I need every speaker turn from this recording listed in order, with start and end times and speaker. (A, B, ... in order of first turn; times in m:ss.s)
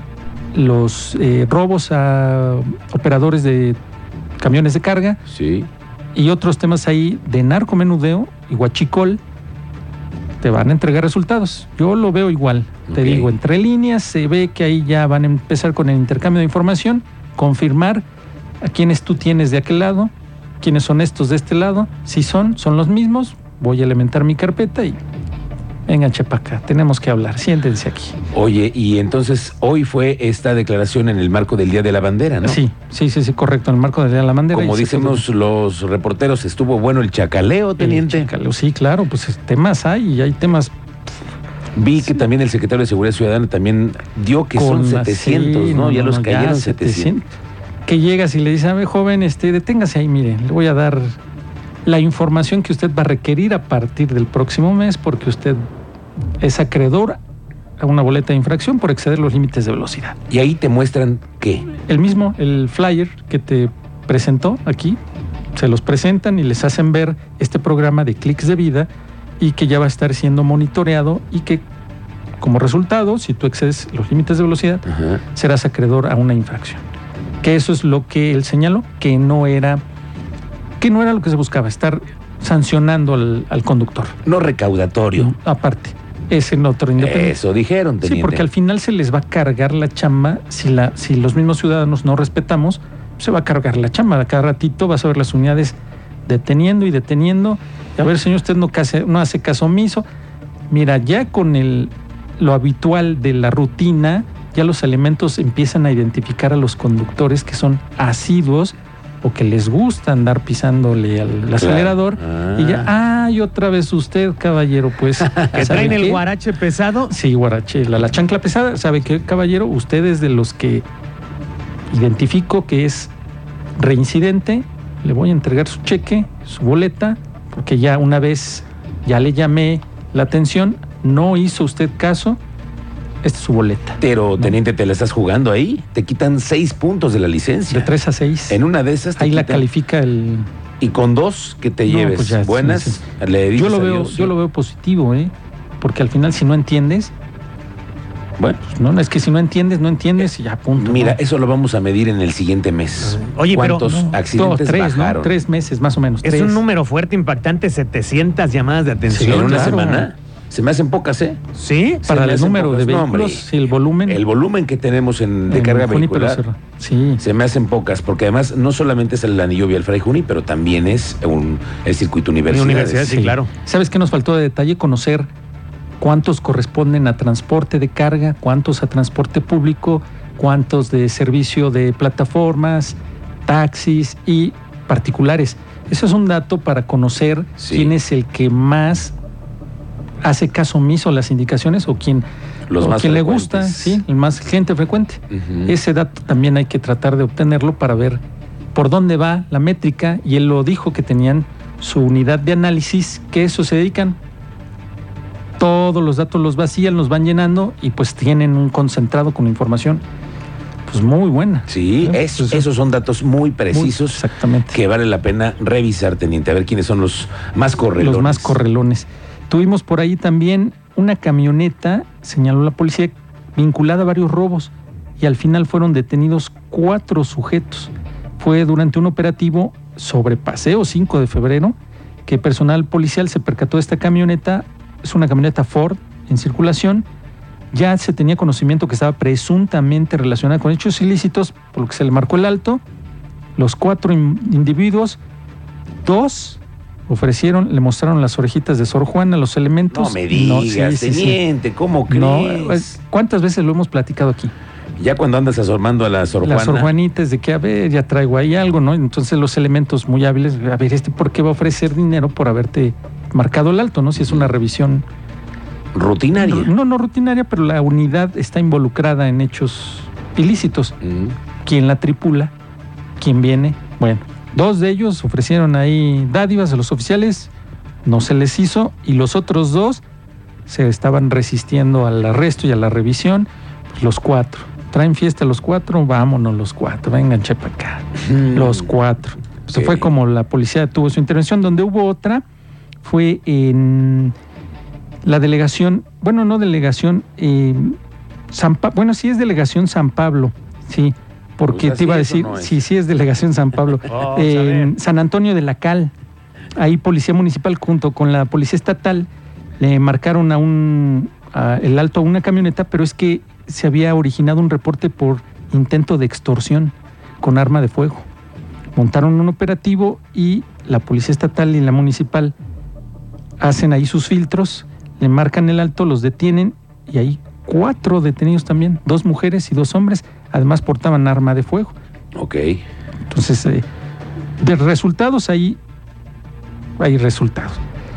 0:00.5-0:03.8 A
0:04.4-0:05.2 A
0:05.3-0:05.7 B
0:06.1-0:09.2 A
0:10.4-0:18.0 A
0:12.9-0:13.3 B
0:18.6-0:25.0 A
0:25.9-0:28.1 A
0:28.3-0:32.6 B
0:32.4-0:35.2 A
0:34.5-0:38.3 B
0:37.8-0:40.7 A
0:41.7-0:47.1 B
0:44.5-0:47.2 A
0:47.8-0:51.2 A
0:51.8-0:55.6 A
0:56.4-0:57.2 A
0:57.8-1:00.2 A
1:00.3-1:01.7 B
1:01.8-1:05.0 A
1:05.5-1:08.9 A
1:09.4-1:11.6 A
1:12.4-1:16.8 A
1:14.9-1:15.2 B
1:17.4-1:19.8 A
1:20.8-1:24.2 A
1:24.2-1:25.3 B
1:25.2-1:27.4 A
1:27.0-1:28.4 B
1:28.0-1:40.0 A
1:40.7-1:56.2 A
1:51.6-1:52.9 B
1:55.2-1:56.0 B
1:55.5-1:57.1 C
1:57.1-2:00.8 A
2:01.9-2:03.1 A
2:03.8-2:12.4 A
2:13.2-2:14.6 A
2:14.0-2:17.9 B
2:17.7-2:18.6 A
2:18.5-2:19.7 B
2:19.2-2:20.5 A
2:20.8-2:24.3 B
2:21.8-2:23.0 A
2:23.6-2:27.1 A
2:28.6-2:31.2 A
2:30.2-2:35.3 B
2:33.0-2:33.8 C
2:33.8-2:36.6 A
2:36.2-2:39.8 C
2:39.1-2:40.1 A
2:39.2-2:41.4 B
2:41.5-2:42.0 C
2:42.0-2:43.5 B
2:42.0-2:44.2 A
2:44.0-2:46.4 B
2:45.5-2:47.2 A
2:47.2-2:53.2 B
2:52.5-2:53.5 C
2:53.1-2:55.3 A
2:56.0-3:09.1 A
3:07.6-3:07.9 B
3:10.2-3:12.2 A
3:12.7-3:14.0 B
3:12.8-3:18.2 A
3:15.3-3:15.7 B
3:18.7-3:24.2 A
3:25.6-3:30.0 A
3:30.8-3:32.6 A
3:31.7-3:38.6 B
3:33.7-3:34.8 A
3:38.0-3:57.0 A
3:57.7-4:02.8 A
4:03.6-4:05.2 A
4:06.0-4:11.4 A
4:09.9-4:13.0 B
4:12.1-4:14.5 A
4:15.0-4:16.9 B
4:16.4-4:25.0 A
4:24.2-4:24.5 B
4:25.9-4:26.7 B
4:26.4-4:31.0 A
4:31.0-4:31.3 B
4:31.6-4:32.5 A
4:33.2-4:37.5 A
4:38.0-4:40.0 A
4:40.7-4:52.4 A
4:48.3-4:48.9 B
4:49.7-4:50.1 B
4:53.0-4:54.3 A
4:55.2-4:58.0 A
4:58.5-5:06.1 A
5:01.7-5:02.9 B
5:04.1-5:04.9 C
5:06.7-5:09.3 A
5:09.8-5:18.2 A
5:18.9-5:22.5 A
5:23.6-5:31.9 A
5:32.3-5:32.8 B
5:33.3-5:33.8 A
5:34.6-5:35.8 A
5:37.0-5:37.8 A